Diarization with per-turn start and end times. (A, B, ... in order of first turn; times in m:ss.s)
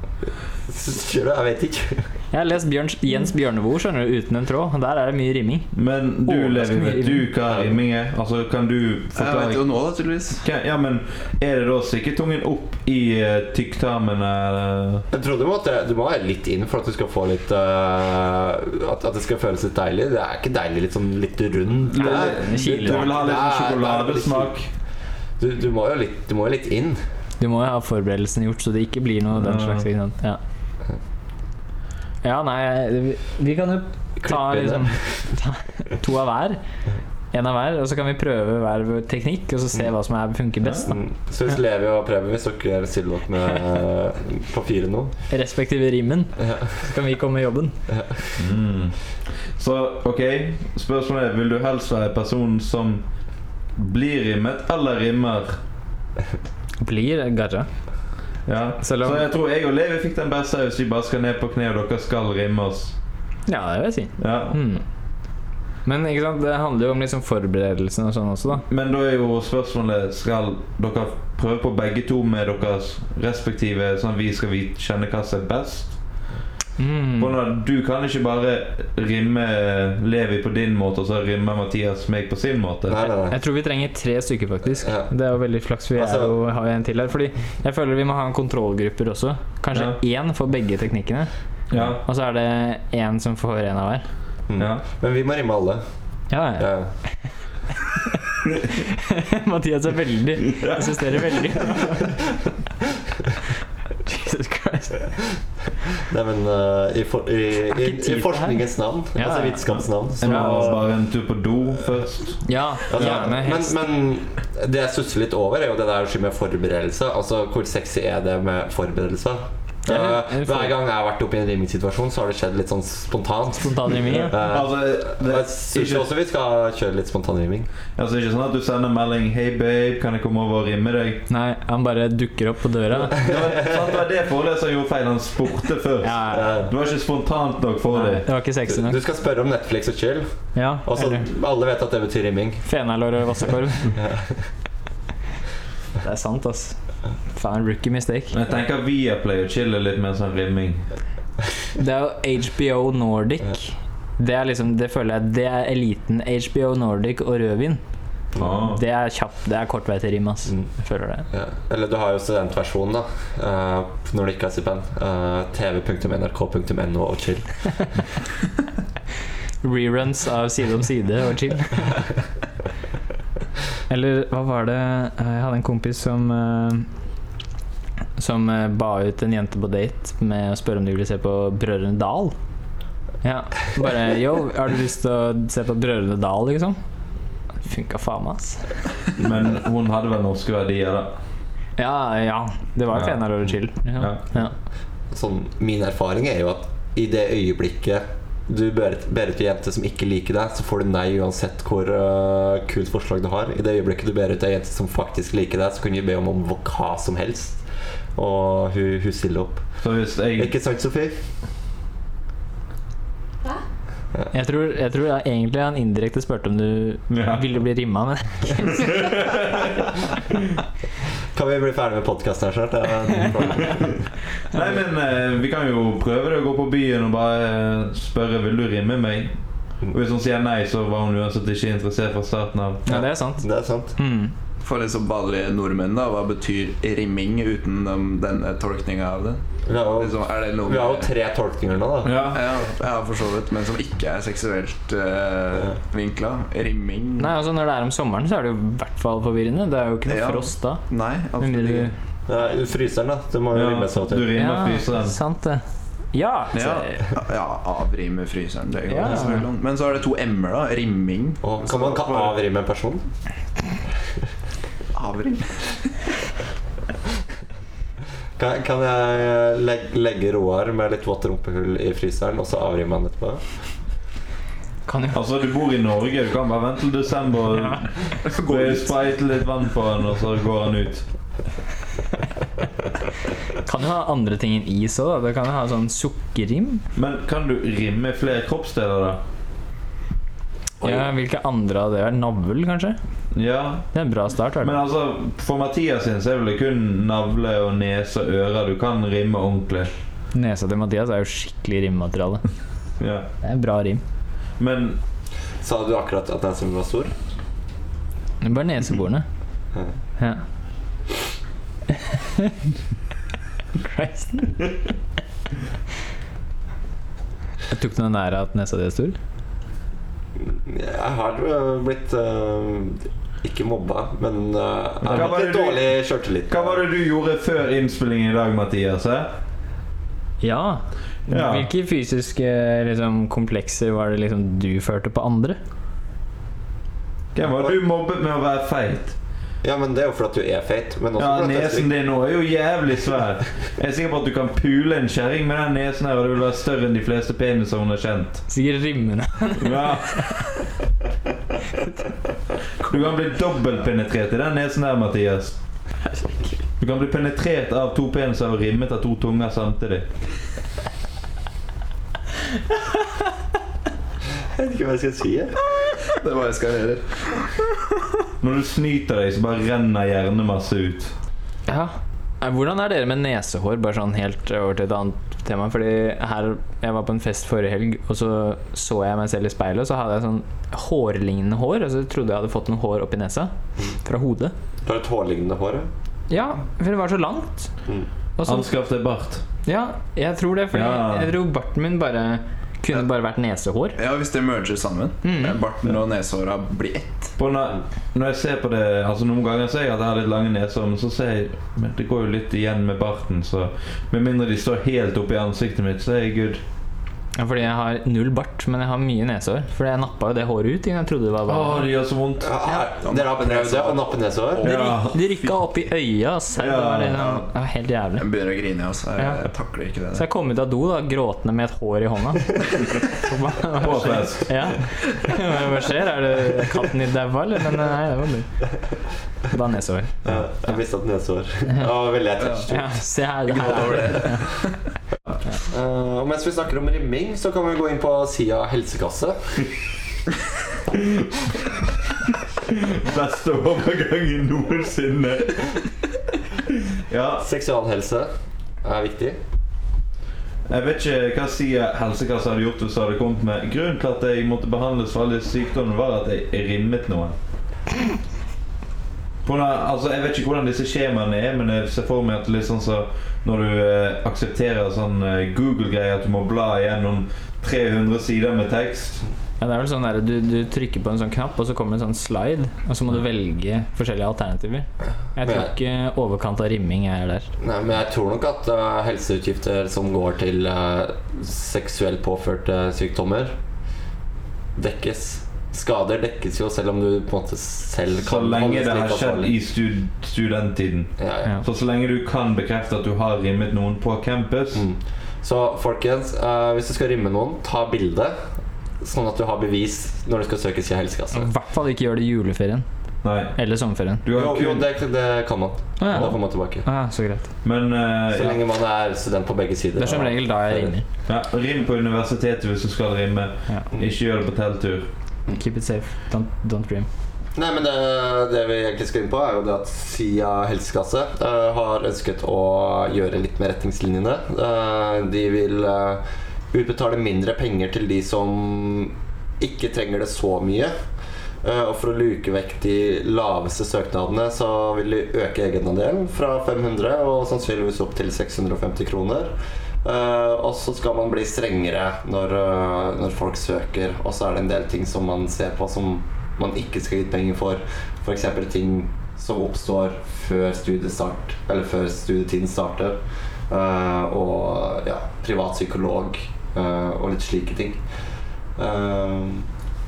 0:00.2-0:02.1 A
0:02.3-0:05.7 B
0:05.7-0:09.7 C
0:06.2-0:07.3 B
0:07.5-0:07.7 A
0:09.1-0:10.4 D
0:10.4-0:15.0 C
0:15.1-0:24.6 A
0:21.9-0:24.7 C
0:21.9-0:23.1 B
0:25.4-0:27.0 A
0:27.4-0:30.4 B
0:29.4-0:29.8 C
0:32.2-0:36.6 B
0:34.2-0:35.0 A
0:37.3-0:41.0 B
0:40.8-0:45.1 A
0:45.3-0:47.8 B
0:46.4-0:46.7 A
0:47.9-0:48.4 A
0:48.4-0:49.0 C
0:49.6-0:53.0 C
0:53.8-0:55.6 C
0:56.8-0:57.7 B
0:58.5-1:02.9 C
0:58.8-0:59.2 B
1:03.5-1:04.8 B
1:04.2-1:04.6 C
1:05.8-1:08.6 B
1:08.6-1:16.0 C
1:16.8-1:17.4 B
1:17.2-1:23.0 C
1:22.9-1:23.4 A
1:23.3-1:31.3 B
1:24.7-1:25.1 A
1:25.9-1:26.3 A
1:31.7-1:32.0 C
1:31.8-1:34.0 B
1:34.5-1:35.8 A
1:34.6-1:34.8 C
1:36.3-1:37.2 B
1:36.6-1:36.9 A
1:37.9-1:42.2 B
1:40.6-1:41.2 C
1:44.0-1:45.1 B
1:46.0-1:50.9 A
1:47.7-1:49.7 B
1:50.2-1:52.4 C
1:50.2-1:50.8 B
1:52.4-1:53.8 B
1:52.9-2:07.7 A
1:59.8-2:00.7 B
2:03.6-2:04.4 B
2:04.2-2:06.0 C
2:08.0-2:11.2 C
2:11.3-2:13.2 B
2:13.0-2:18.3 C
2:13.2-2:13.8 A
2:16.0-2:16.6 B
2:16.3-2:16.7 A
2:17.9-2:19.0 B
2:18.6-2:20.3 A
2:20.5-2:21.3 B
2:20.8-2:22.6 A
2:22.6-2:24.0 B
2:23.9-2:24.4 A
2:26.0-2:26.8 B
2:27.3-2:28.4 B
2:28.3-2:30.8 C
2:31.7-2:37.8 B
2:38.4-2:38.8 C
2:38.6-2:41.3 B
2:41.3-2:47.5 A
2:49.6-2:52.0 B
2:53.9-2:56.9 B
2:58.2-3:02.3 B
3:03.2-3:06.8 B
3:07.6-3:08.8 B
3:09.2-3:11.1 C
3:11.8-3:14.5 B
3:12.9-3:13.2 C
3:13.9-3:14.2 C
3:15.1-3:27.6 A
3:28.2-3:29.6 A
3:29.8-3:30.5 C
3:30.3-3:31.2 A
3:34.3-3:39.0 B
3:37.1-3:37.4 C
3:38.7-3:39.9 C
3:41.3-3:44.0 A
3:44.5-3:49.3 C
3:49.9-3:52.8 C
3:52.8-3:53.4 B
3:52.8-3:53.9 A
3:54.0-3:54.3 B
3:54.6-3:59.4 D
3:59.7-4:02.3 A
4:00.0-4:01.1 D
4:02.0-4:02.4 C
4:02.2-4:07.3 D
4:07.2-4:10.8 B
4:10.1-4:11.9 D
4:11.4-4:11.9 B
4:12.3-4:14.3 A
4:13.5-4:15.2 C
4:14.3-4:17.0 B
4:16.5-4:22.3 D
4:18.9-4:19.5 B
4:21.4-4:23.0 A
4:24.9-4:25.9 D
4:28.4-4:33.4 A
4:34.8-4:35.2 B
4:35.1-4:41.0 C
4:38.2-4:38.9 D
4:43.6-4:46.8 B
4:46.9-4:49.2 C
4:50.8-4:51.1 A
4:50.8-4:53.0 B
4:53.3-4:53.9 C
4:53.9-4:54.8 B
4:54.6-4:59.9 C
5:00.3-5:02.4 B
5:03.0-5:03.3 C
5:03.4-5:04.0 B
5:04.6-5:05.0 C
5:05.6-5:07.1 A
5:08.4-5:09.2 B
5:11.9-5:12.6 B
5:13.8-5:14.8 B
5:17.7-5:19.2 B
5:20.4-5:26.8 A
5:25.0-5:26.0 C
5:26.5-5:29.3 C
5:30.4-5:35.6 B
5:31.3-5:31.7 C
5:37.3-5:39.1 C
5:39.6-5:41.9 A
5:41.2-5:48.4 C
5:48.5-5:50.4 B
5:49.6-5:50.4 C
5:52.8-5:55.6 C
5:56.1-5:56.5 B
5:56.8-6:00.0 C
6:04.5-6:05.6 A
6:06.0-6:07.6 D
6:08.4-6:11.1 C
6:11.7-6:24.5 B
6:24.8-6:25.9 A
6:26.3-6:27.7 B
6:28.4-6:28.7 B
6:28.4-6:29.4 C
6:29.6-6:34.0 B
6:30.7-6:31.4 C
6:34.0-6:37.4 D
6:35.2-6:35.6 B
6:37.4-6:46.6 C
6:47.4-6:51.9 B
6:51.5-6:52.5 C
6:52.4-6:54.7 A
6:53.0-6:55.5 D
6:54.6-6:55.2 C
6:54.6-6:58.2 B
6:56.6-6:57.3 C
6:58.2-7:00.2 D
6:59.2-6:59.4 B
7:00.1-7:08.5 B
7:03.7-7:04.8 C
7:09.5-7:10.8 B
7:10.2-7:12.9 A
7:12.4-7:12.7 D
7:12.7-7:14.5 B
7:13.5-7:14.7 D
7:15.6-7:19.7 A
7:20.9-7:21.2 C
7:22.6-7:25.8 C
7:26.9-7:27.4 C
7:27.4-7:28.3 A
7:28.8-7:29.4 A
7:30.7-7:37.4 C
7:39.4-7:49.2 C
7:49.6-7:57.5 B
7:55.4-7:55.7 A
7:57.6-8:03.6 A
8:04.8-8:09.5 A
8:08.2-8:14.8 C
8:11.2-8:11.5 A
8:14.7-8:18.3 A
8:19.0-8:21.5 A
8:21.3-8:22.8 B
8:23.2-8:23.6 C
8:23.5-8:24.2 B
8:24.2-8:24.9 C
8:24.3-8:26.8 A
8:26.0-8:27.5 B
8:27.6-8:28.6 C
8:28.3-8:31.0 A
8:30.0-8:31.0 B
8:31.3-8:35.1 C
8:35.5-8:37.1 B
8:37.6-8:50.9 A
8:51.6-9:18.0 A
9:18.8-9:19.7 A